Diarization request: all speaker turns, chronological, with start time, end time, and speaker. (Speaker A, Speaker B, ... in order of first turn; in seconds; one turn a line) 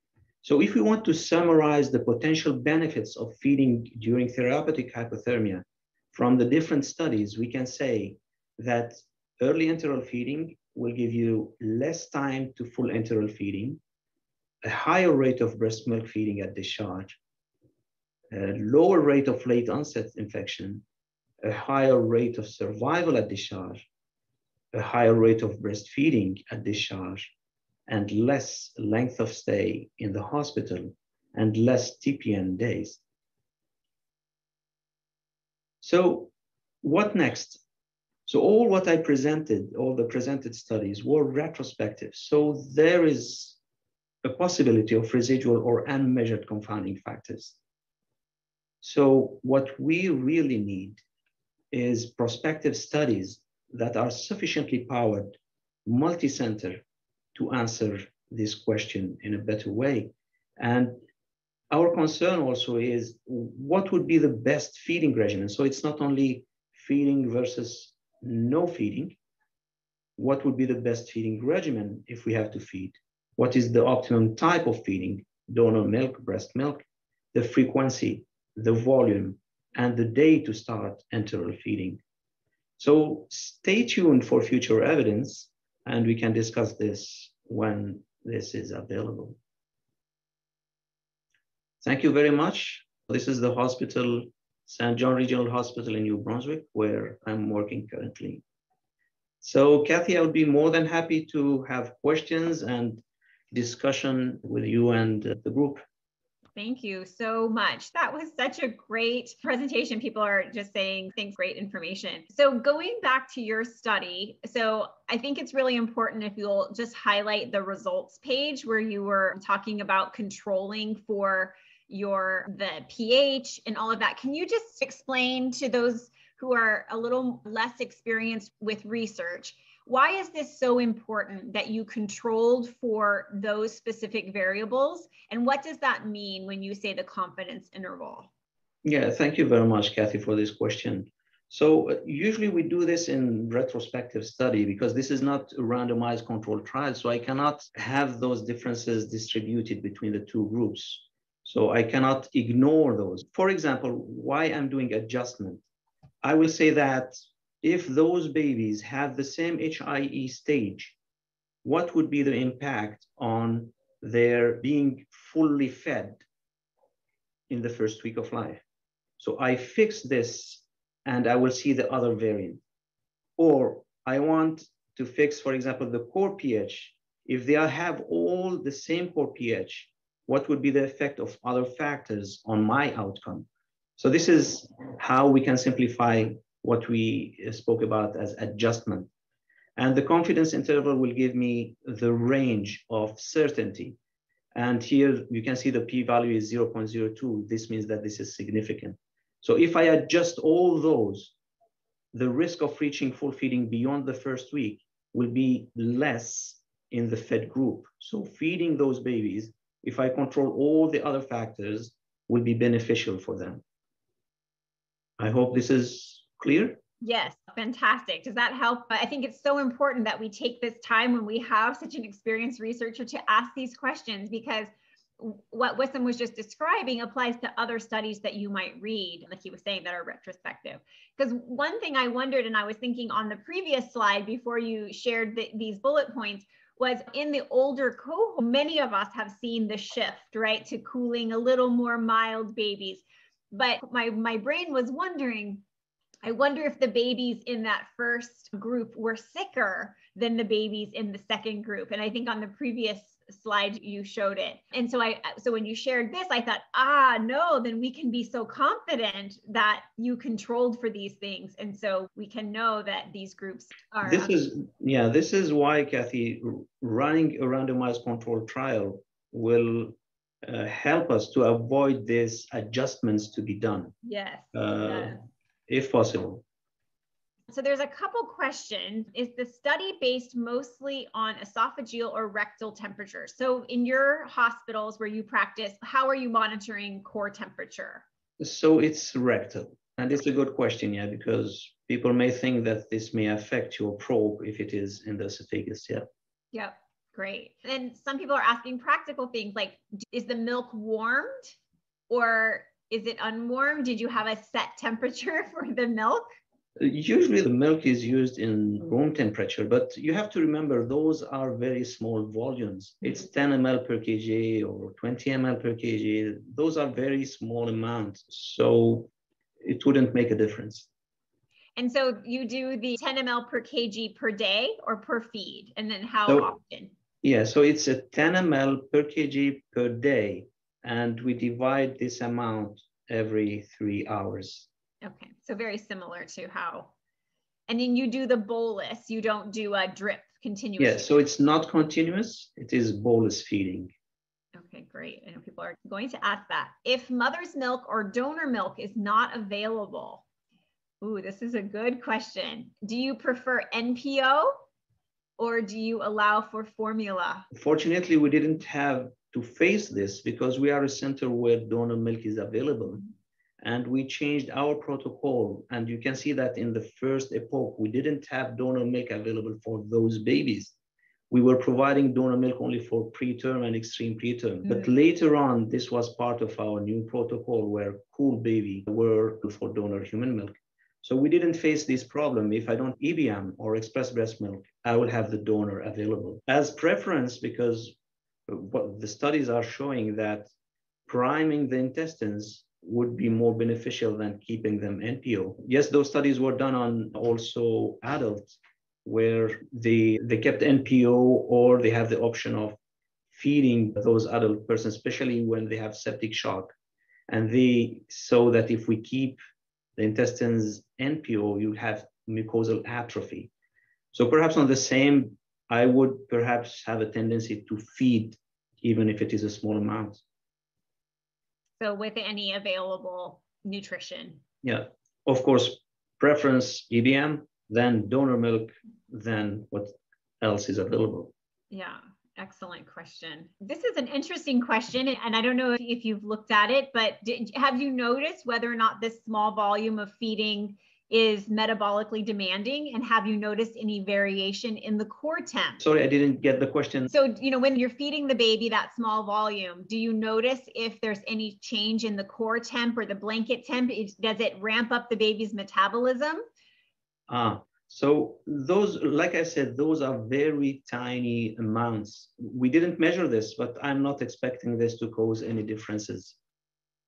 Speaker A: 0.4-13.8
Speaker A: 14.6-17.2
Speaker A: 18.3-20.8
Speaker A: 21.4-23.8
Speaker A: 24.7-27.3
Speaker A: 27.9-33.0
Speaker A: 35.8-36.3
Speaker A: 36.8-37.6
Speaker A: 38.3-43.6
Speaker A: 44.2-47.6
Speaker A: 48.8-51.0
Speaker A: 51.7-56.8
Speaker A: 57.4-61.0
Speaker A: 61.7-69.2
Speaker A: 70.2-82.0
Speaker A: 82.8-89.4
Speaker A: 91.8-98.4
Speaker A: 99.4-105.8
Speaker B: 106.6-138.3
Speaker A: 138.8-155.7
Speaker A: 156.2-161.0
Speaker A: 161.6-166.2
Speaker A: 167.5-168.6
Speaker A: 169.2-172.6
Speaker A: 173.4-189.1
Speaker A: 189.8-194.0
Speaker A: 194.6-201.3
Speaker A: 202.1-213.6
Speaker A: 215.2-216.8
Speaker B: 217.0-245.6
Speaker B: 246.2-264.3
Speaker A: 264.0-273.9
Speaker B: 274.0-275.2
Speaker A: 274.5-275.2
Speaker A: 275.7-276.4
Speaker B: 277.5-288.0
Speaker A: 288.4-296.1
Speaker B: 296.5-301.6
Speaker B: 302.1-306.3
Speaker A: 306.8-319.1
Speaker A: 319.6-320.9
Speaker B: 321.8-326.9
Speaker A: 326.3-326.5
Speaker A: 327.2-334.7
Speaker B: 335.0-336.9
Speaker B: 337.7-341.2
Speaker A: 340.8-343.9
Speaker B: 344.6-350.2
Speaker B: 351.0-354.6
Speaker B: 355.4-357.5
Speaker A: 357.5-363.1
Speaker A: 363.6-370.7
Speaker A: 371.3-390.5
Speaker A: 391.1-402.8
Speaker A: 403.3-406.7
Speaker A: 407.3-409.4
Speaker A: 410.0-413.5
Speaker A: 414.1-420.2
Speaker B: 421.8-424.4
Speaker A: 424.6-431.3
Speaker B: 431.7-445.8
Speaker A: 445.8-447.1
Speaker B: 447.1-456.4
Speaker A: 457.3-466.4